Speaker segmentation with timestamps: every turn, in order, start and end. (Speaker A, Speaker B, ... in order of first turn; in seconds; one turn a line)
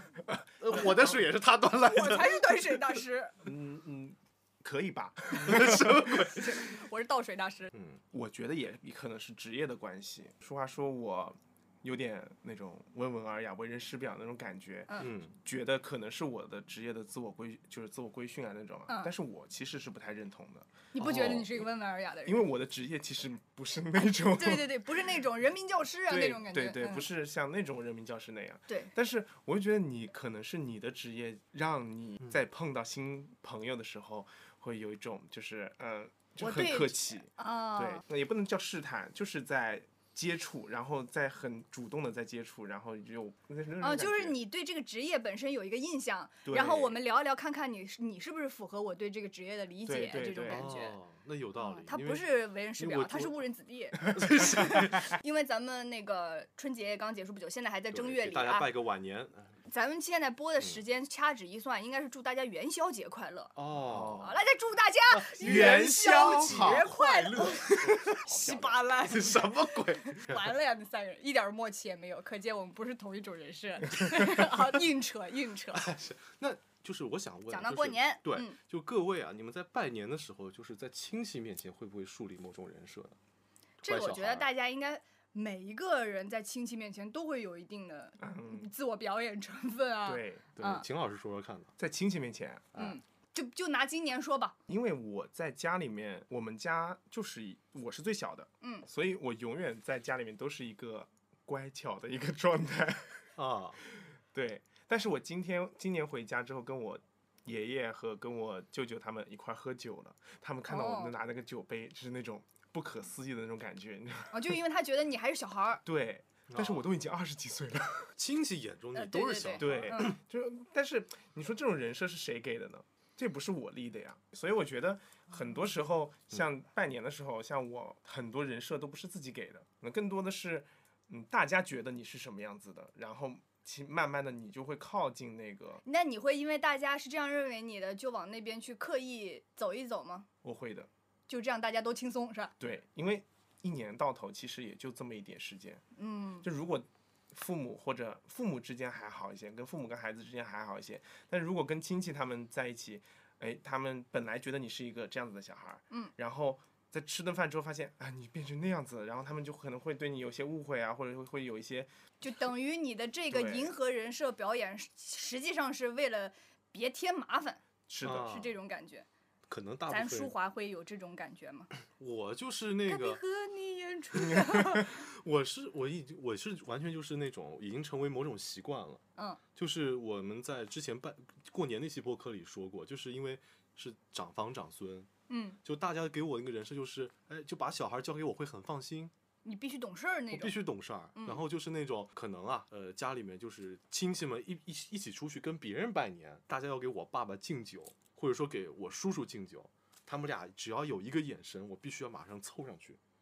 Speaker A: 0.3-1.0
Speaker B: 0.6-2.7
Speaker C: 1.8-3.3
Speaker A: 3.4-6.2
Speaker B: 5.4-6.5
Speaker C: 5.8-7.7
Speaker B: 7.7-8.0
Speaker A: 8.1-21.3
Speaker B: 15.0-15.3
Speaker C: 20.9-22.4
Speaker B: 21.0-21.5
Speaker A: 22.2-24.9
Speaker C: 24.3-27.1
Speaker A: 26.1-44.4
Speaker C: 36.4-38.0
Speaker C: 43.8-51.0
Speaker A: 46.5-47.0
Speaker A: 49.9-50.7
Speaker B: 50.5-53.4
Speaker C: 51.6-58.7
Speaker B: 54.1-55.0
Speaker B: 57.9-59.6
Speaker C: 59.7-63.5
Speaker B: 63.5-64.3
Speaker A: 63.8-64.4
Speaker C: 64.2-75.9
Speaker B: 65.1-70.5
Speaker A: 65.4-66.8
Speaker B: 75.7-83.2
Speaker C: 77.5-78.6
Speaker C: 83.8-90.9
Speaker B: 83.9-84.5
Speaker A: 88.2-88.7
Speaker A: 90.1-90.5
Speaker B: 90.6-91.7
Speaker A: 91.8-92.8
Speaker C: 92.8-94.5
Speaker A: 94.7-103.2
Speaker B: 103.4-103.8
Speaker A: 104.3-114.5
Speaker C: 110.7-111.1
Speaker C: 114.3-115.8
Speaker A: 115.8-118.1
Speaker B: 116.5-116.8
Speaker B: 118.2-120.1
Speaker C: 119.0-120.2
Speaker A: 119.6-135.8
Speaker C: 135.8-140.3
Speaker A: 140.4-140.9
Speaker C: 141.3-142.5
Speaker A: 142.6-145.8
Speaker C: 146.0-146.5
Speaker A: 146.4-161.9
Speaker C: 162.2-167.6
Speaker A: 163.3-163.7
Speaker A: 167.9-168.3
Speaker B: 168.0-168.5
Speaker C: 168.2-169.1
Speaker B: 169.5-170.3
Speaker C: 169.9-171.7
Speaker B: 171.9-173.2
Speaker C: 172.9-174.9
Speaker B: 174.4-179.0
Speaker B: 179.6-185.1
Speaker C: 185.3-185.6
Speaker B: 185.6-189.1
Speaker C: 189.4-190.6
Speaker B: 190.3-203.0
Speaker C: 191.2-191.4